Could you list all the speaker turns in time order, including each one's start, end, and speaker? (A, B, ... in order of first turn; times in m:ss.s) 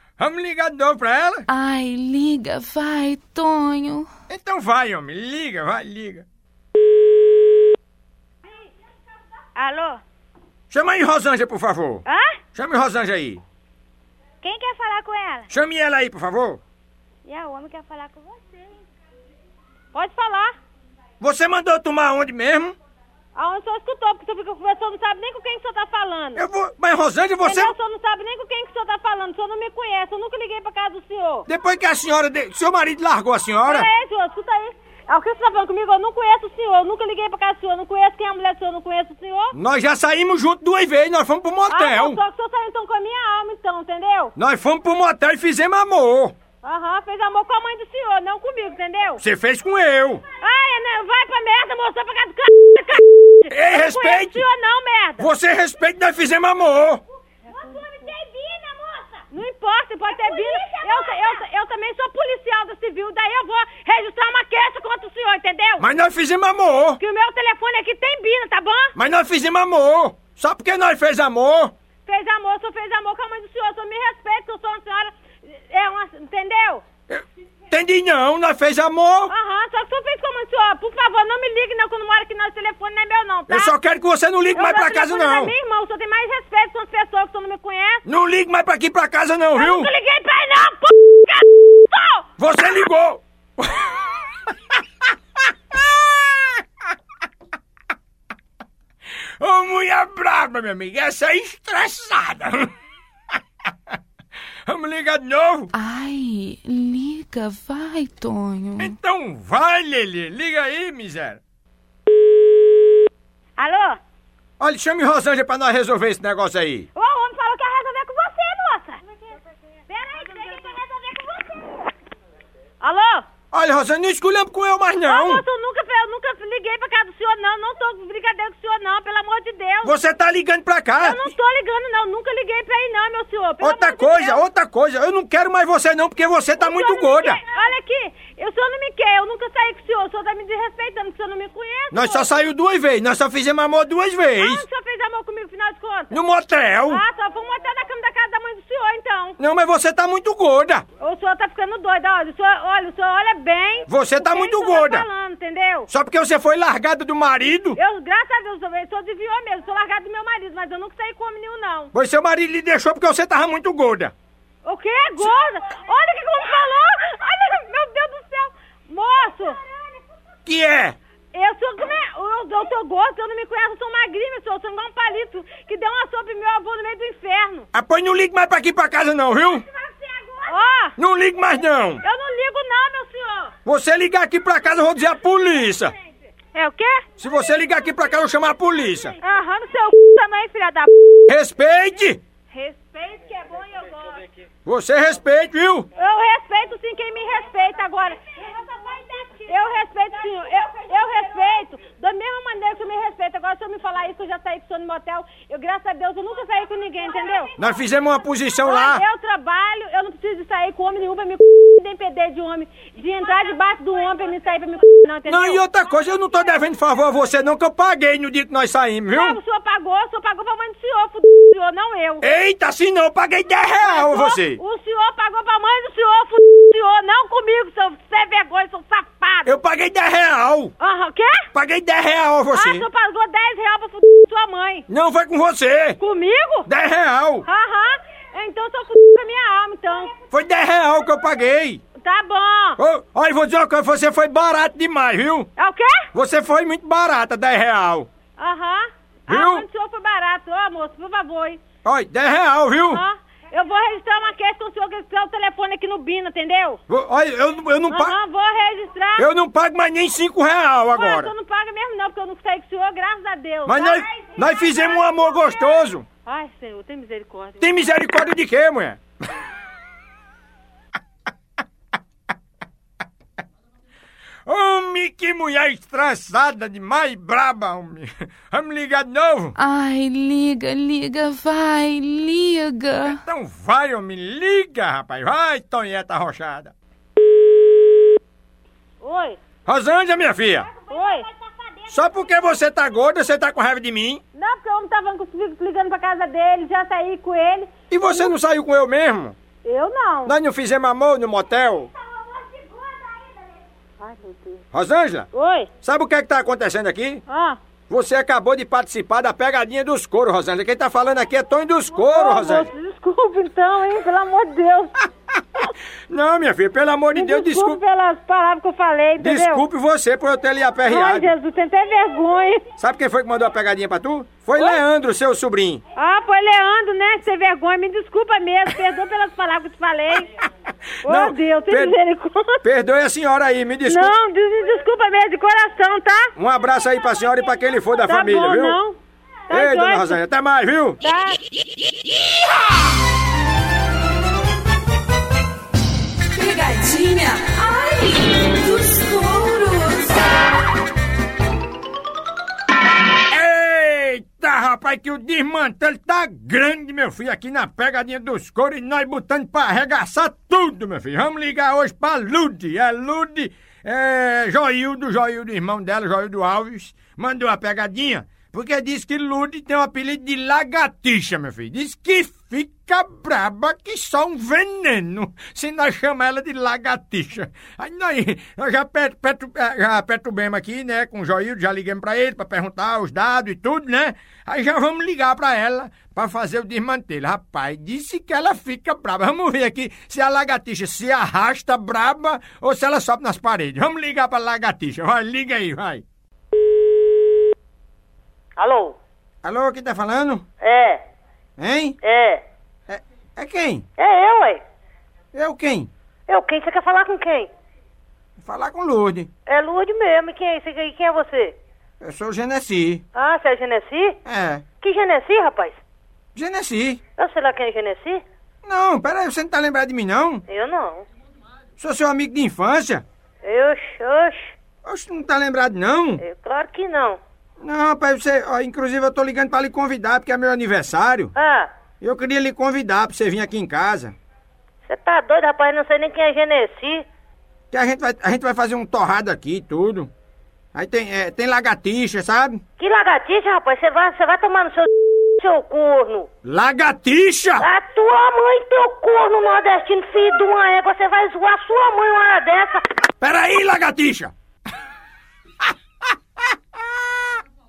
0:00.2-0:01.4 A
0:01.5-0:04.1 B
0:04.3-0:06.3 A
0:09.6-0:10.0 C
0:10.7-0:12.0 A
0:12.1-0:12.4 C
0:12.6-0:13.4 A
0:14.4-0:15.5 C
0:15.5-0:16.6 A
0:17.3-0:18.3 C
0:19.9-0:20.6 C
0:21.2-0:22.8 A
0:23.4-0:26.4 C
0:26.4-0:27.7 A
0:27.4-0:31.5 C
0:31.5-0:33.9 A
0:33.6-0:39.6 C
0:39.5-0:42.2 A
0:41.7-0:44.3 C
0:44.4-0:46.4 A
0:46.6-0:49.2 C
0:49.2-0:50.2 A
0:50.4-0:55.3 C
0:53.5-0:54.4 A
0:55.2-0:57.0 A
0:57.5-1:05.9 C
1:05.8-1:07.0 A
1:07.0-1:08.9 C
1:09.0-1:11.7 A
1:12.1-1:16.8 C
1:17.1-1:19.3 A
1:19.3-1:23.7 C
1:23.5-1:25.5 A
1:24.5-1:28.0 C
1:28.0-1:29.9 A
1:29.6-1:32.3 C
1:32.4-1:34.1 A
1:35.7-1:36.6 A
1:39.4-1:42.7 A
1:44.7-1:45.7 A
1:45.7-1:48.9 B
1:48.8-1:51.4 A
1:53.6-1:54.0 C
1:54.6-1:56.9 A
1:57.0-1:59.0 C
1:59.9-2:01.8 C
2:02.8-2:03.3 C
2:03.5-2:05.4 A
2:05.0-2:10.0 C
2:09.8-2:11.3 A
2:11.0-2:14.4 C
2:13.6-2:17.4 A
2:16.6-2:22.3 C
2:21.9-2:24.6 A
2:24.4-2:26.1 C
2:26.1-2:27.0 A
2:26.9-2:29.4 C
2:29.4-2:30.8 A
2:31.0-2:35.9 C
2:33.9-2:35.1 A
2:35.9-2:37.8 A
2:37.8-2:41.9 C
2:41.9-2:44.1 A
2:44.6-2:49.6 C
2:50.5-2:51.0 A
2:51.3-2:57.7 C
2:57.7-2:59.6 A
3:00.3-3:01.0 C
3:01.0-3:02.0 A
3:02.0-3:03.5 C
3:03.6-3:05.9 A
3:06.5-3:07.1 C
3:07.2-3:09.2 A
3:09.2-3:11.2 C
3:11.3-3:12.2 A
3:12.5-3:14.2 C
3:14.7-3:15.9 A
3:16.0-3:27.6 C
3:27.6-3:29.0 A
3:28.6-3:35.6 C
3:35.3-3:39.4 A
3:39.1-3:42.2 C
3:42.2-3:44.6 A
3:43.7-3:49.6 C
3:49.4-3:50.7 A
3:50.8-3:51.5 C
3:51.5-3:52.9 A
3:52.5-3:54.9 C
3:54.9-3:56.0 A
3:56.0-3:56.7 C
3:56.7-3:57.5 A
3:57.4-4:00.2 C
4:00.3-4:01.8 A
4:02.0-4:02.8 C
4:02.8-4:05.5 A
4:05.6-4:06.1 C
4:06.1-4:08.1 A
4:08.4-4:11.6 C
4:09.3-4:09.7 A
4:11.8-4:13.0 A
4:12.9-4:16.8 C
4:16.9-4:18.2 A
4:17.9-4:19.3 C
4:19.2-4:21.3 A
4:20.9-4:27.9 C
4:23.7-4:26.1 A
4:27.6-4:29.0 A
4:34.5-4:39.5 A
4:39.6-4:43.2 B
4:43.1-4:46.7 A
4:49.0-4:49.4 C
4:49.7-4:50.7 A
4:50.8-4:51.3 C
4:51.9-4:54.2 A
4:54.4-4:58.3 C
4:57.9-4:59.4 A
4:59.6-5:00.4 C
5:00.3-5:01.9 A
5:04.0-5:04.6 C
5:04.7-5:05.3 A
5:05.3-5:05.7 C
5:05.8-5:07.2 A
5:07.3-5:07.6 C
5:07.9-5:12.7 A
5:11.9-5:15.0 C
5:15.4-5:17.8 A
5:17.1-5:19.6 C
5:19.2-5:21.3 A
5:20.9-5:22.7 C
5:22.8-5:25.8 A
5:26.0-5:30.3 C
5:31.0-5:32.0 A
5:31.0-5:32.6 C
5:32.6-5:34.1 A
5:33.8-5:36.3 C
5:36.4-5:38.8 A
5:38.0-5:39.0 C
5:39.5-5:40.2 C
5:39.5-5:41.0 A
5:41.0-5:41.4 C
5:46.3-5:50.6 D
5:53.3-6:36.0 A
6:38.6-6:39.0 E
6:39.4-6:40.4 A
6:40.6-6:41.0 E
6:41.6-6:42.0 A
6:42.0-6:42.4 E
6:42.9-6:43.8 A
6:44.0-6:44.6 E
6:45.3-6:45.9 A
6:46.3-6:47.5 E
6:48.4-6:49.3 A
6:49.5-6:51.6 E
6:52.0-6:53.0 A
6:53.2-6:54.2 E
6:54.2-6:54.6 A
6:54.8-6:55.8 E
6:56.4-6:57.0 A
6:57.2-6:58.2 E
6:58.6-7:00.4 A
7:00.5-7:01.0 E
7:01.8-7:03.0 A
7:03.4-7:04.5 E
7:04.8-7:06.2 A
7:06.2-7:07.2 E
7:07.6-7:11.3 A
7:11.4-7:11.7 E
7:12.0-7:14.2 A
7:14.9-7:17.0 E
7:17.7-7:20.1 A
7:20.8-7:22.6 A
7:22.8-7:26.3 E
7:26.4-7:27.6 A
7:27.6-7:32.8 E
7:33.2-7:34.3 A
7:36.5-7:37.3 A